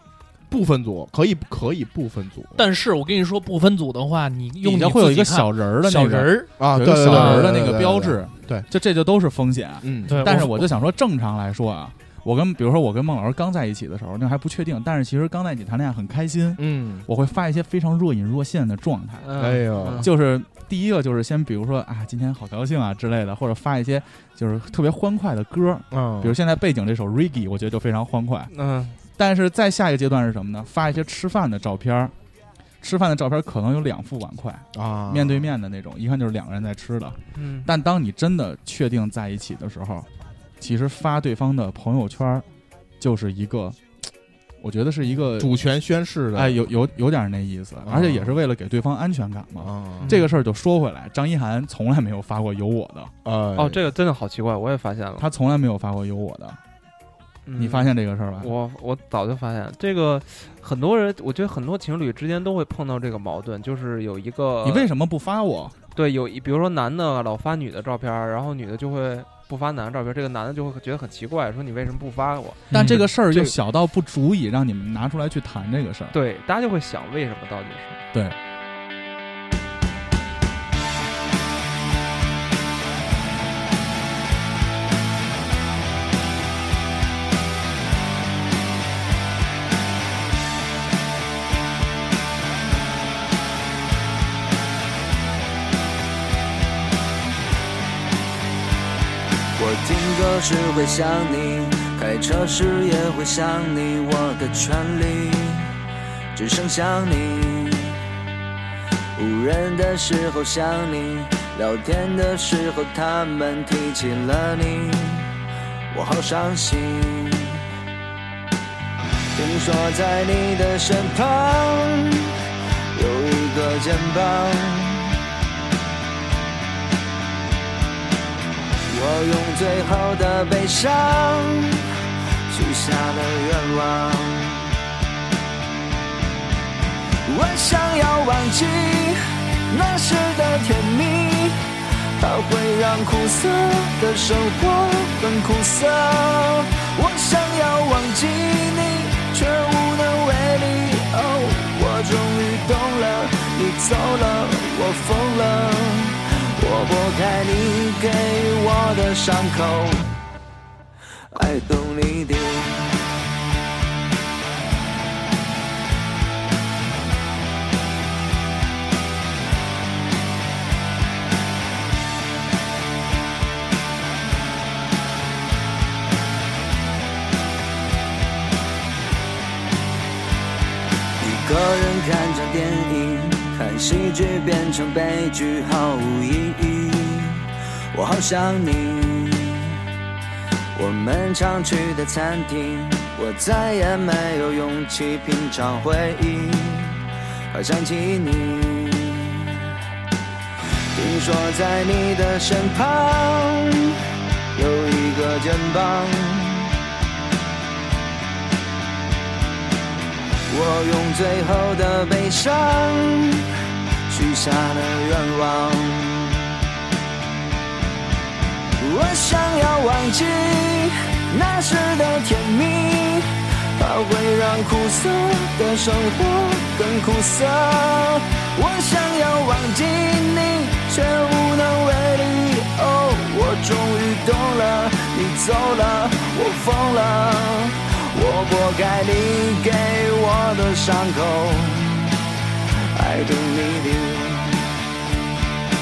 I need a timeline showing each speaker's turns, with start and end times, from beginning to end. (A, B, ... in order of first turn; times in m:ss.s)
0:00.5-0:02.6 A
0:02.6-0:07.5 B
0:04.6-0:19.3 C
0:06.6-0:08.7 A
0:09.8-0:10.5 A
0:10.1-0:10.7 B
0:16.6-0:17.1 A
0:19.2-0:20.1 D
0:19.4-0:20.1 A
0:20.0-0:28.5 C
0:25.9-0:26.4 A
0:28.5-0:29.0 D
0:29.2-0:32.1 C
0:32.8-0:40.1 C
0:34.7-0:35.5 A
0:37.4-0:37.7 D
0:40.6-0:42.5 C
0:43.0-0:44.0 C
0:44.6-0:45.5 C
0:45.4-0:46.6 A
0:46.4-0:53.1 C
0:47.8-0:48.4 A
0:49.6-0:50.2 A
0:50.0-0:50.3 D
0:53.2-0:53.8 A
0:53.6-0:55.3 D
0:55.2-0:56.6 C
0:57.4-1:04.9 D
0:57.6-0:58.5 C
1:04.6-1:05.7 C
1:06.0-1:13.6 D
1:12.7-1:13.0 B
1:12.7-1:16.2 C
1:16.1-1:18.0 D
1:39.6-1:45.7 E
1:46.3-1:48.0 E
1:49.2-1:55.3 E
1:55.9-1:57.6 E
1:59.3-2:02.3 E
2:03.0-2:05.1 E
2:08.9-2:11.9 E
2:12.5-2:14.7 E
2:17.3-2:19.2 E
2:19.7-2:21.6 E
2:22.2-2:40.2 E
2:41.3-2:43.0 E
3:01.2-3:09.8 E
3:10.7-3:19.7 E
3:20.9-3:24.0 E
3:24.5-3:26.7 E
3:30.5-3:33.5 E
3:34.1-3:36.6 E
3:38.8-4:02.1 E
4:03.0-4:04.7 E